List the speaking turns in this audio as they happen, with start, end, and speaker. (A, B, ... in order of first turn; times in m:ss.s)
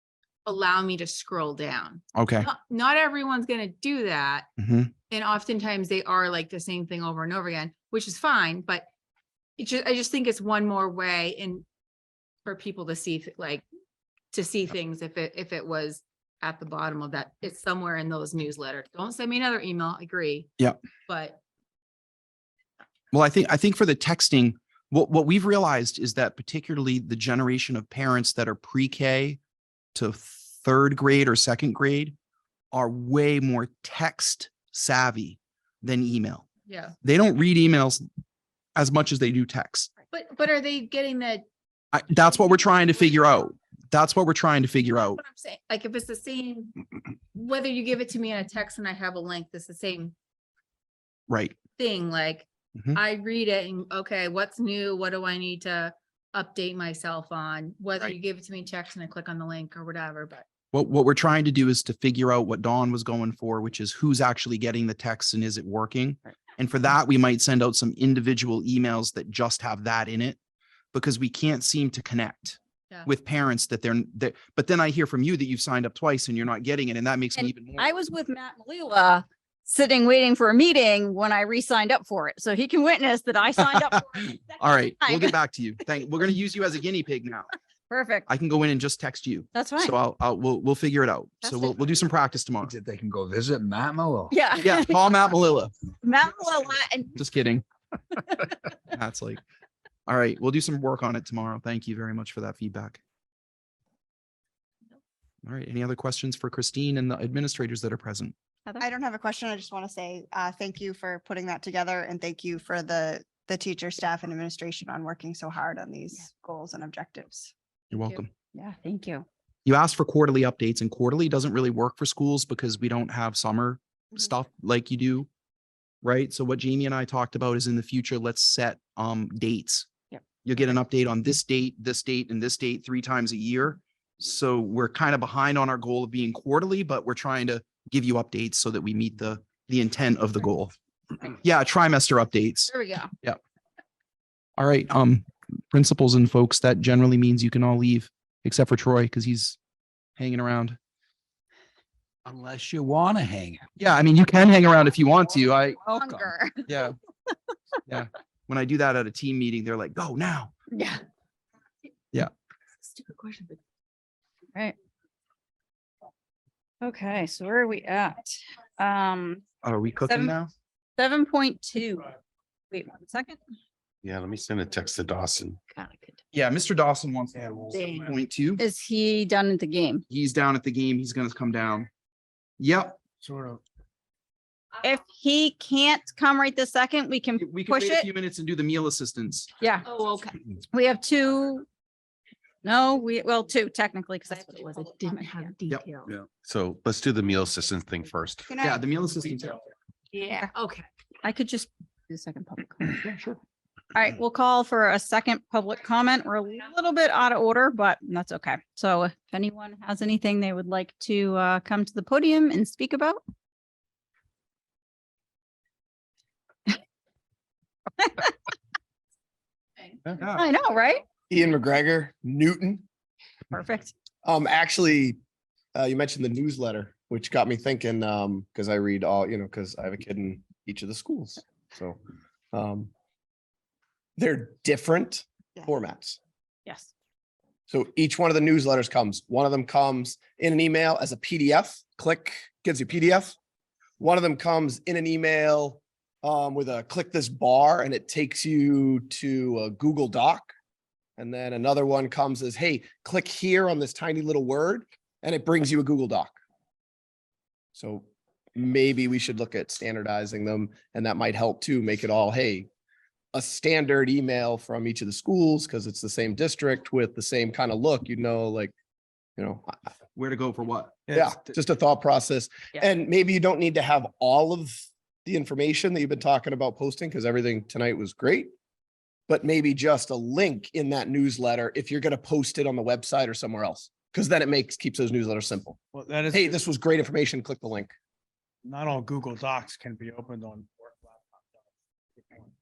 0:00.4-0:04.5 A
0:02.2-0:02.5 B
0:04.6-0:04.9 B
0:05.1-0:08.9 A
0:09.6-0:11.7 A
0:12.4-0:13.6 A
0:14.3-0:20.5 A
0:21.1-0:21.4 A
0:23.1-0:29.4 B
0:30.0-0:32.2 B
0:32.7-0:36.5 B
0:36.7-0:37.0 A
0:37.0-0:38.0 B
0:38.8-0:39.9 B
0:40.1-0:41.4 A
0:41.9-0:45.2 B
0:45.0-0:46.8 A
0:47.3-0:50.2 A
0:51.3-0:51.6 B
0:51.8-1:00.5 A
1:00.7-1:10.4 B
1:10.9-1:17.9 B
1:17.4-1:25.3 C
1:24.5-1:27.5 B
1:27.9-1:28.3 C
1:28.3-1:32.8 B
1:29.5-1:30.0 C
1:31.4-1:31.8 C
1:32.6-1:34.3 D
1:34.3-1:35.1 C
1:34.6-1:35.7 B
1:36.0-1:37.2 C
1:37.2-1:37.6 B
1:38.9-1:39.4 B
1:40.1-1:43.0 B
1:45.4-1:48.4 B
1:48.8-1:57.5 E
1:57.9-1:58.3 B
1:58.5-1:59.3 C
1:59.7-2:05.3 B
2:06.0-2:09.9 B
2:10.4-2:20.7 B
2:21.3-2:23.4 B
2:22.7-2:23.1 C
2:24.6-2:29.6 B
2:30.2-2:30.8 B
2:32.3-2:33.6 D
2:33.8-2:35.8 B
2:35.8-2:36.9 C
2:36.7-2:37.0 B
2:37.9-2:40.5 B
2:40.7-2:41.0 C
2:42.8-2:43.6 A
2:46.8-2:49.4 C
2:49.6-2:50.5 B
2:50.0-2:50.4 C
2:51.0-2:52.1 C
2:52.7-2:53.4 C
2:54.0-2:55.6 F
2:55.7-2:56.1 A
2:56.3-2:58.6 B
2:57.4-2:57.9 G
2:58.6-3:00.0 C
3:00.1-3:01.9 B
3:02.6-3:03.0 B
3:03.2-3:03.6 G
3:04.8-3:08.1 C
3:07.4-3:09.5 B
3:09.8-3:10.4 A
3:10.7-3:11.7 C
3:12.6-3:15.5 C
3:14.3-3:16.1 A
3:16.4-3:18.5 F
3:18.5-3:18.8 E
3:18.6-3:19.6 B
3:20.1-3:20.9 A
3:21.2-3:23.0 C
3:24.0-3:33.2 C
3:38.0-3:38.3 C
3:39.8-3:40.2 A
3:40.2-3:40.4 B
3:40.3-3:41.0 C
3:41.3-3:42.8 H
3:43.5-3:43.9 C
3:44.2-3:45.2 H
3:45.8-3:52.0 H
3:52.5-3:52.9 H
3:54.2-3:56.2 H
3:57.7-4:03.4 H
4:04.0-4:10.5 H
4:11.2-4:16.4 H
4:17.8-4:22.7 H
4:23.3-4:28.8 H
4:29.4-4:29.8 H
4:30.2-4:31.0 B
4:31.1-4:31.5 G
4:31.1-4:38.5 H
4:39.3-4:45.8 H
4:45.9-4:46.6 G
4:46.3-4:47.9 H
4:48.6-4:51.6 G
4:52.2-4:52.5 G